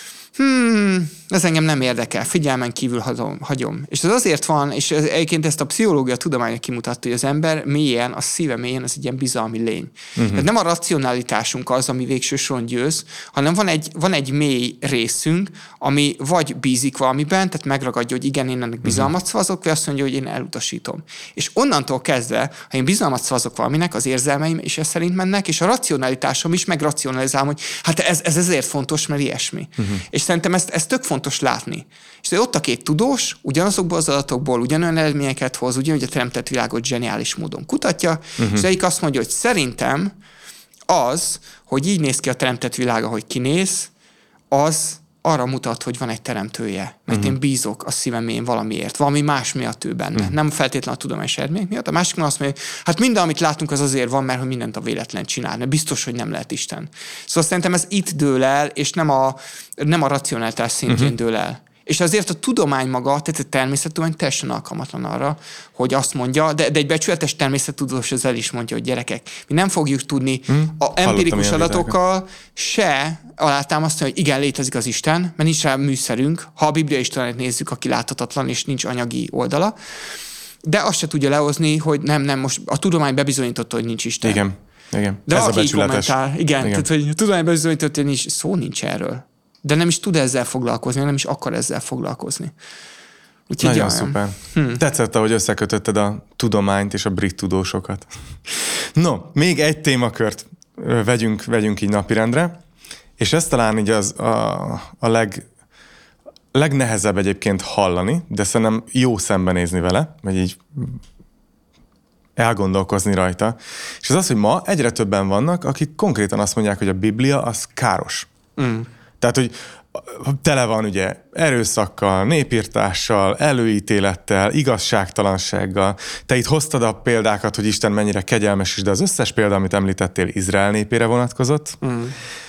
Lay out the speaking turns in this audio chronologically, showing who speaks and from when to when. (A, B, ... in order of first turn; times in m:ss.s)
0:00.3-0:40.2 A
0:10.2-0:10.4 B
0:38.4-0:38.7 B
0:40.9-0:43.9 A
0:44.5-1:24.4 A
1:10.5-1:11.9 B
1:24.2-1:26.8 B
1:25.3-1:32.5 A
1:33.5-1:34.8 A
1:33.6-1:38.1 B
1:39.0-1:42.6 B
1:43.2-1:45.4 B
1:46.5-1:51.0 B
1:52.4-1:58.3 B
1:58.6-1:58.9 A
1:59.2-2:11.8 B
2:11.8-2:12.1 A